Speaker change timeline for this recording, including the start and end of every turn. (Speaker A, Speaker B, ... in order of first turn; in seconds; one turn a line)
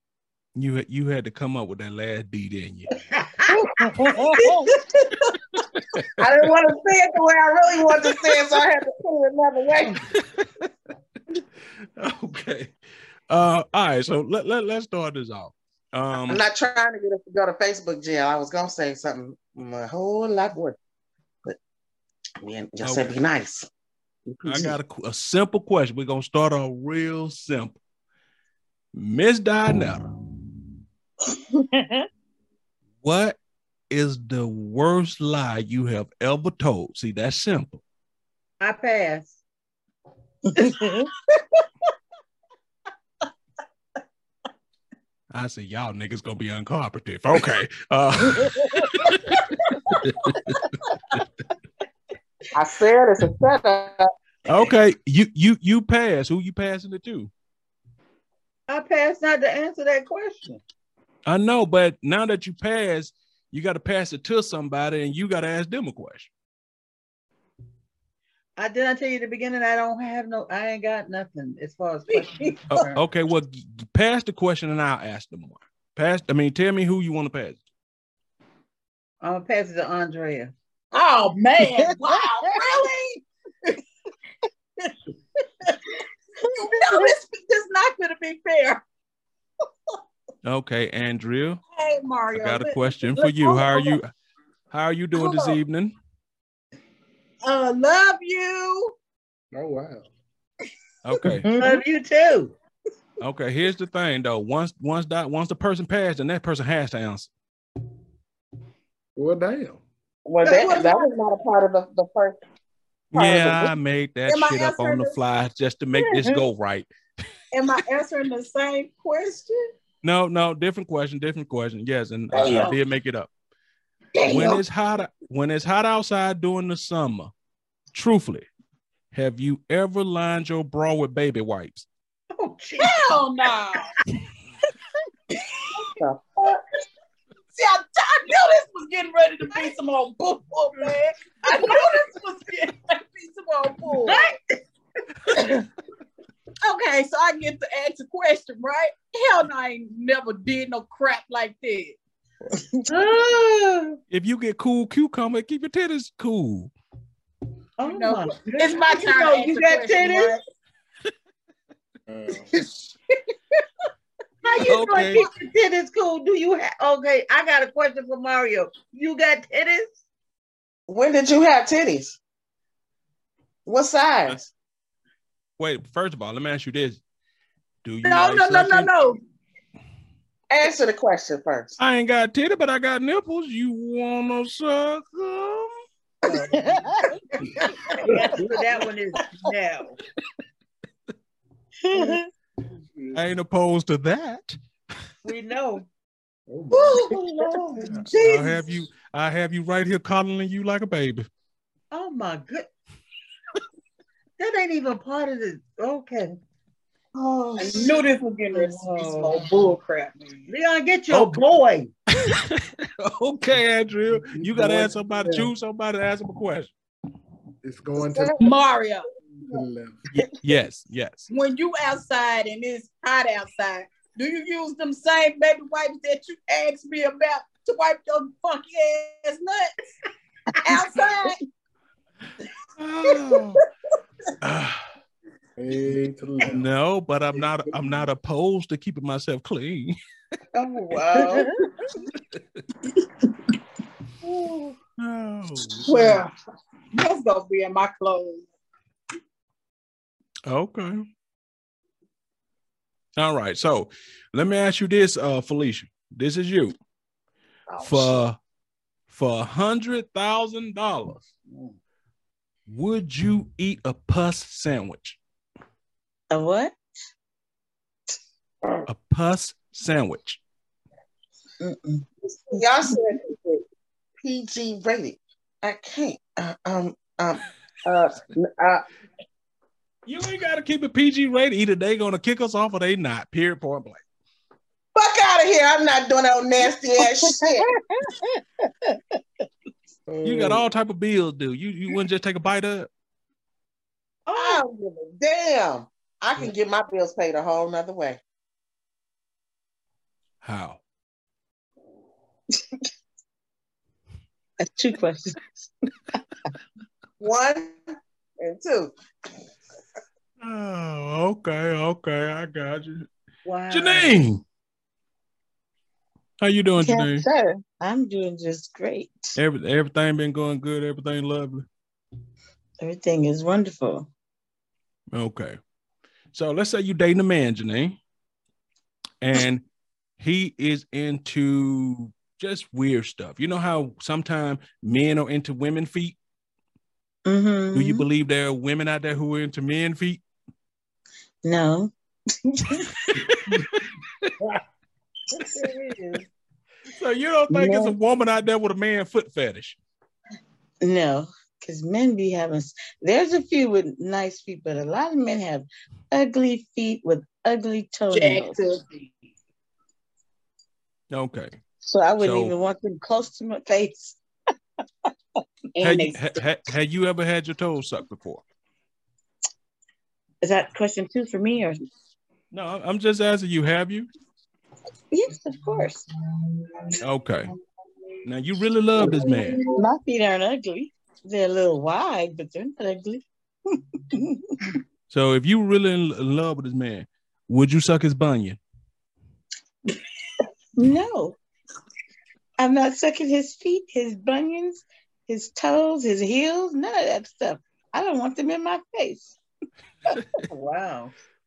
Speaker A: 0.6-2.9
Speaker B: 3.1-3.5
Speaker C: 3.5-4.5
Speaker D: 3.8-4.7
Speaker C: 6.2-10.1
Speaker A: 10.2-10.7
Speaker A: 12.0-12.7
Speaker A: 13.3-16.4
Speaker C: 16.3-20.8
Speaker C: 22.4-23.7
Speaker A: 22.8-23.1
Speaker C: 24.3-24.7
Speaker A: 24.4-27.8
Speaker A: 28.9-30.1
Speaker D: 31.5-32.0
Speaker A: 33.0-33.4
Speaker A: 33.9-37.8
Speaker B: 38.6-39.4
Speaker D: 40.5-41.1
Speaker A: 45.3-51.2
Speaker D: 48.3-48.9
Speaker C: 52.5-54.6
Speaker A: 54.5-57.3
Speaker B: 58.7-60.6
Speaker A: 61.2-66.3
Speaker B: 68.6-73.0
Speaker E: 72.1-72.6
Speaker A: 72.7-77.6
Speaker B: 79.2-80.5
Speaker E: 80.9-83.2
Speaker D: 81.8-82.5
Speaker D: 86.5-87.1
Speaker E: 86.5-88.8
Speaker A: 90.4-91.6
Speaker E: 91.7-94.0
Speaker A: 92.3-94.1
Speaker A: 94.7-95.9
Speaker E: 95.1-95.6
Speaker E: 97.4-98.9
Speaker F: 99.5-100.1
Speaker A: 101.0-101.5
Speaker D: 101.2-101.8
Speaker B: 101.6-102.5
Speaker A: 103.2-107.3
Speaker F: 109.2-109.8
Speaker C: 110.2-112.4
Speaker E: 110.4-111.1
Speaker A: 113.1-116.9
Speaker C: 113.2-113.7
Speaker E: 114.3-115.2
Speaker E: 117.5-119.6
Speaker A: 120.0-123.3
Speaker C: 122.3-122.8
Speaker E: 122.5-122.7
Speaker E: 124.1-124.6
Speaker A: 124.2-127.3
Speaker A: 127.9-128.5
Speaker A: 129.1-131.9
Speaker B: 132.3-133.1
Speaker E: 132.8-133.9
Speaker C: 135.8-136.6
Speaker E: 137.5-144.2
Speaker B: 141.5-141.9
Speaker B: 144.1-144.6
Speaker E: 146.6-152.0
Speaker D: 152.6-152.9
Speaker B: 152.9-154.0
Speaker A: 154.1-156.7
Speaker B: 157.8-160.4
Speaker E: 157.8-160.4
Speaker F: 162.1-162.5
Speaker B: 164.4-169.9
Speaker A: 164.7-165.3
Speaker C: 170.9-172.2
Speaker C: 173.7-174.5
Speaker A: 175.6-177.0
Speaker A: 177.8-178.9
Speaker E: 178.0-179.2
Speaker C: 180.5-181.8
Speaker A: 181.8-185.7
Speaker D: 186.4-187.1
Speaker F: 187.6-188.4
Speaker B: 188.0-190.0
Speaker D: 191.8-192.3
Speaker F: 192.7-193.2
Speaker A: 193.1-194.6
Speaker B: 195.2-195.9
Speaker F: 196.5-197.1
Speaker E: 196.7-197.3
Speaker C: 197.1-197.9
Speaker E: 197.9-198.7
Speaker A: 198.1-201.3
Speaker B: 201.9-202.7
Speaker B: 204.4-206.4
Speaker C: 207.1-208.1
Speaker E: 207.6-210.4
Speaker C: 208.8-209.3
Speaker B: 210.5-211.9
Speaker A: 211.1-211.4
Speaker A: 212.2-216.7
Speaker F: 214.2-215.5
Speaker F: 217.6-218.4
Speaker C: 217.9-218.5
Speaker E: 218.4-219.1
Speaker F: 219.4-220.1
Speaker A: 220.1-221.3
Speaker E: 221.3-229.7
Speaker D: 230.5-231.1
Speaker E: 230.6-231.4
Speaker A: 232.8-233.6
Speaker A: 234.4-234.8
Speaker F: 235.6-236.7
Speaker A: 236.4-239.9
Speaker B: 240.5-241.5
Speaker A: 245.0-246.2
Speaker E: 245.8-246.3
Speaker E: 246.9-248.5
Speaker A: 250.5-251.0
Speaker A: 253.2-256.7
Speaker C: 257.7-258.2
Speaker A: 257.8-258.4
Speaker A: 259.1-261.3
Speaker B: 261.5-261.8
Speaker A: 262.7-265.2
Speaker D: 266.3-266.8
Speaker A: 268.9-270.4
Speaker D: 271.6-272.6
Speaker C: 272.2-273.6
Speaker C: 274.2-278.8
Speaker A: 280.1-284.0
Speaker C: 284.9-287.7
Speaker D: 287.1-288.4
Speaker F: 290.1-290.6
Speaker A: 290.2-292.9
Speaker B: 294.2-294.6
Speaker C: 294.4-298.2
Speaker A: 300.4-300.8
Speaker D: 304.6-305.5
Speaker C: 307.2-307.8
Speaker C: 308.4-308.9
Speaker A: 310.4-313.1
Speaker B: 313.4-314.2
Speaker A: 313.7-314.4
Speaker A: 316.4-317.2
Speaker D: 316.8-319.4
Speaker A: 319.4-321.6
Speaker D: 322.8-324.1
Speaker A: 325.1-325.6
Speaker A: 326.3-328.0
Speaker A: 329.2-329.6
Speaker A: 330.2-336.1
Speaker D: 337.2-338.0
Speaker A: 337.7-340.2
Speaker D: 341.4-341.9
Speaker D: 342.4-343.1
Speaker A: 343.1-344.3
Speaker B: 345.4-346.2
Speaker A: 346.9-349.8
Speaker D: 347.5-347.9
Speaker D: 350.8-358.6
Speaker E: 358.1-359.1
Speaker A: 361.1-361.5
Speaker D: 361.8-364.2
Speaker A: 362.2-362.5
Speaker D: 365.8-366.2
Speaker E: 365.8-366.1
Speaker A: 365.8-368.4
Speaker D: 370.4-371.8
Speaker A: 372.5-374.1
Speaker D: 375.1-376.1
Speaker A: 377.0-377.5
Speaker A: 378.2-379.6
Speaker D: 379.0-383.2
Speaker D: 384.1-384.7
Speaker A: 385.1-388.6
Speaker D: 390.8-391.4
Speaker D: 392.6-399.4
Speaker B: 400.4-401.1